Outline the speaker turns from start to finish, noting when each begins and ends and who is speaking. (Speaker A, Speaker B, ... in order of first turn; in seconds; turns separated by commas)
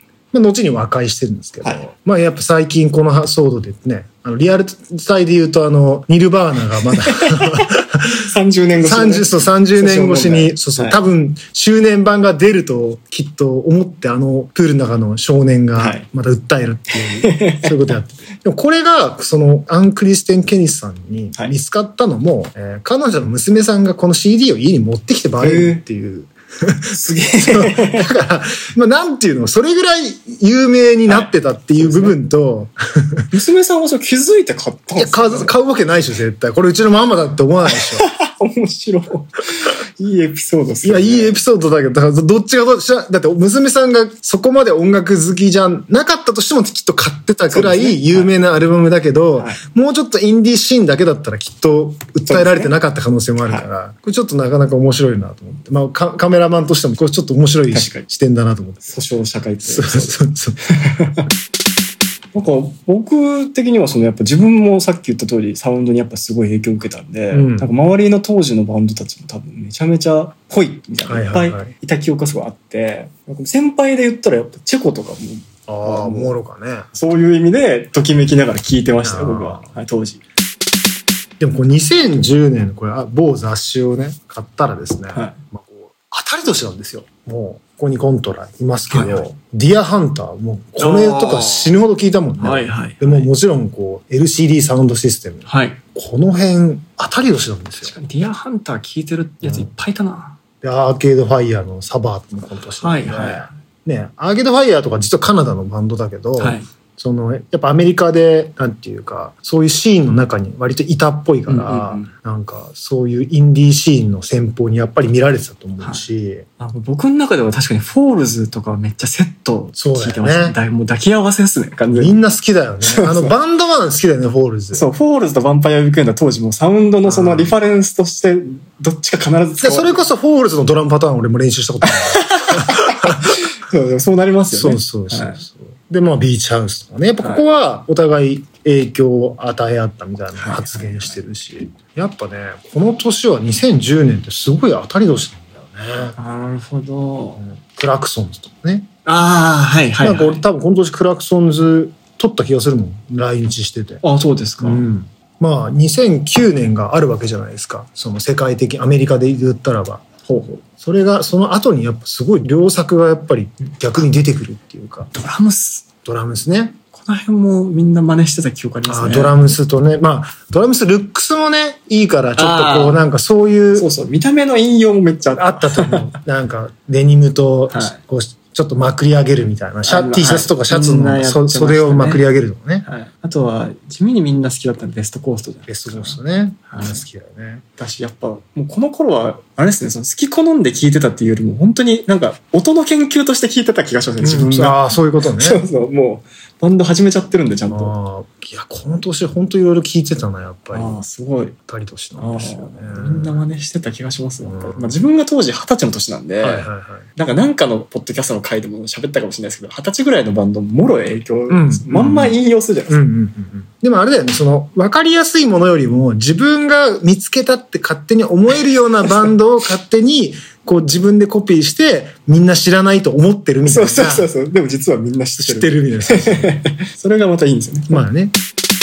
Speaker A: 0.3-8.3, Speaker B: 7.1-7.7, Speaker B: 8.2-11.0, Speaker A: 8.8-33.3, Speaker B: 15.8-16.0, Speaker B: 17.2-17.7, Speaker B: 25.4-25.8, Speaker B: 26.9-28.1, Speaker B: 31.1-32.2, Speaker B: 33.3-35.5, Speaker A: 35.0-38.0, Speaker B: 37.9-41.4, Speaker A: 40.8-59.0, Speaker B: 47.5-48.3, Speaker B: 52.3-52.7, Speaker B: 57.7-58.0, Speaker B: 58.9-60.2, Speaker A: 59.6-60.6, Speaker B: 60.8-61.2, Speaker B: 62.3-76.3, Speaker A: 67.3-67.7, Speaker A: 71.0-71.7, Speaker A: 75.7-76.9, Speaker B: 76.9-80.2, Speaker A: 79.0-79.7, Speaker A: 81.4-97.9, Speaker B: 85.1-85.4, Speaker B: 88.9-89.3, Speaker B: 90.8-91.8, Speaker B: 92.4-93.3, Speaker B: 95.5-95.8, Speaker B: 97.8-100.4, Speaker A: 100.6-116.5, Speaker B: 102.8-103.5, Speaker B: 106.4-106.7, Speaker B: 111.5-112.1, Speaker B: 116.6-122.2, Speaker A: 119.8-120.5, Speaker A: 121.9-124.9, Speaker B: 122.8-123.3, Speaker B: 124.7-130.1, Speaker A: 127.0-127.5, Speaker A: 129.6-133.2, Speaker B: 131.8-135.4, Speaker A: 134.5-146.2, Speaker B: 140.3-141.2, Speaker B: 146.2-147.4, Speaker A: 147.4-148.9, Speaker B: 149.0-150.4, Speaker A: 150.0-154.0, Speaker B: 154.0-154.9, Speaker A: 154.6-160.0, Speaker B: 160.3-160.6, Speaker A: 160.8-165.1, Speaker B: 165.1-165.9, Speaker A: 166.0-166.8, Speaker B: 166.9-169.4, Speaker A: 168.9-173.9, Speaker B: 172.4-173.0, Speaker B: 173.7-176.1, Speaker A: 175.3-182.8, Speaker B: 177.7-178.0, Speaker B: 179.8-182.2, Speaker B: 182.8-186.2, Speaker A: 185.7-187.6, Speaker B: 186.7-187.0, Speaker B: 187.8-197.9, Speaker A: 194.2-195.6, Speaker A: 197.7-201.0, Speaker B: 200.7-201.5, Speaker A: 201.7-203.4, Speaker B: 202.2-213.0, Speaker A: 204.4-205.0, Speaker A: 206.4-207.1, Speaker A: 211.5-224.3, Speaker B: 223.6-228.1, Speaker A: 225.4-226.5, Speaker A: 227.9-228.3